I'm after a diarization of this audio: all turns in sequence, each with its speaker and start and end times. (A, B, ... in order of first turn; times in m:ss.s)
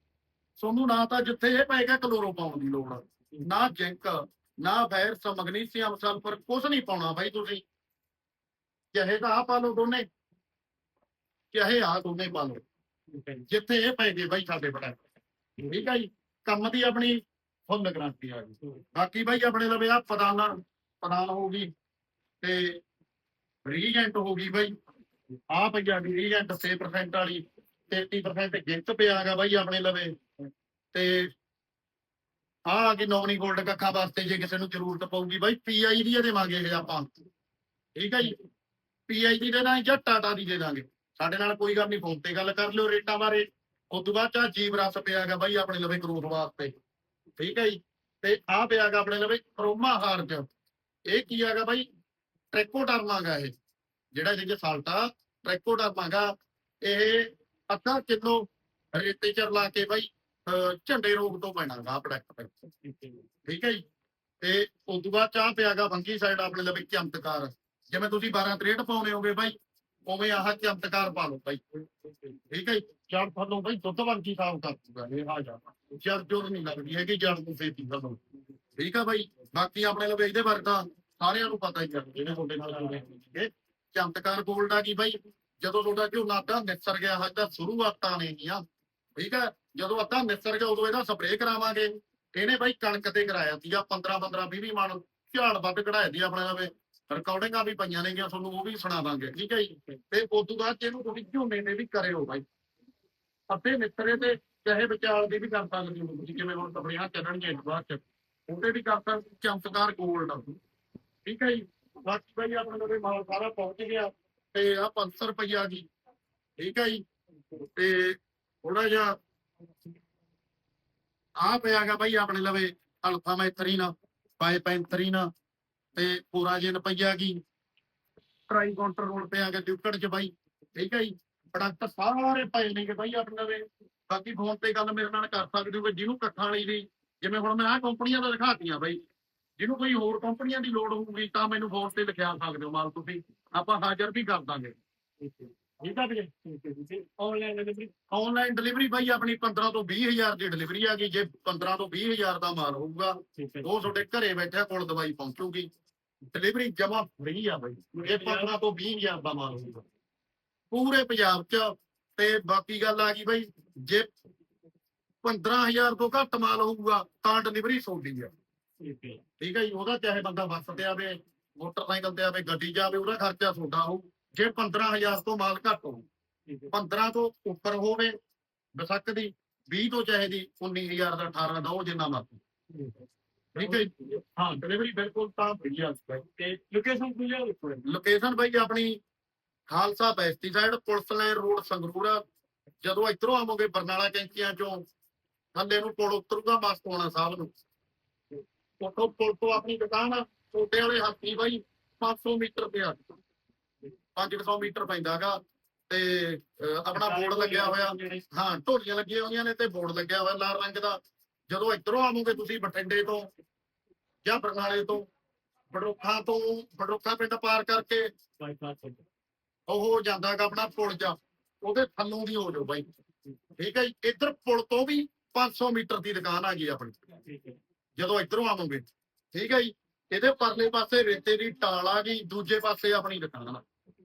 0:00.6-0:07.6 A
0:08.9-0:10.0 A
0:11.5-0:12.6 A
0:13.1-0:13.4 B
0:13.5-0:15.0 A
0:15.6-0:21.7 A
0:22.4-0:22.8 A
0:23.6-0:24.7 A
0:25.5-0:30.1 A
0:30.9-0:31.3 A
0:32.7-0:37.1 A
0:38.0-0:38.4 A
0:39.1-0:46.7 A
0:47.4-0:50.4 A
0:51.1-0:51.8 A
0:52.5-0:53.5 A
0:54.1-1:02.6 A
1:02.8-1:03.2 B
1:03.4-1:03.8 A
1:04.4-1:09.5 A
1:10.0-1:11.6 A
1:12.0-1:12.3 B
1:12.5-1:18.2 A
1:18.8-1:28.6 A
1:29.2-1:42.4 A
1:43.5-1:50.5 A
1:51.2-1:55.9 A
1:56.6-1:57.0 A
1:57.8-1:59.2 A
2:01.4-2:05.3 A
2:06.0-2:07.4 A
2:08.5-2:19.0 A
2:19.6-2:24.8 A
2:25.2-2:27.9 B
2:25.8-2:26.2 A
2:28.1-2:35.7 A
2:33.3-2:33.9 B
2:36.3-2:39.8 A
2:37.9-2:38.5 B
2:40.7-2:44.1 A
2:45.2-2:48.3 A
2:48.8-2:49.2 B
2:49.4-2:56.0 A
2:56.7-2:58.1 A
2:58.8-3:02.4 A
3:02.7-3:03.0 B
3:03.6-3:06.2 A
3:03.6-3:04.6 B
3:06.4-3:07.8 B
3:07.8-3:09.0 A
3:09.7-3:12.2 A
3:12.8-3:14.8 A
3:15.5-3:17.5 A
3:18.8-3:23.0 A
3:24.1-3:33.3 A
3:26.9-3:28.2 B
3:34.2-3:35.0 A
3:35.7-3:38.1 A
3:38.4-3:39.0 B
3:39.7-3:42.9 A
3:43.6-3:47.0 A
3:47.2-3:47.6 B
3:48.0-3:53.6 A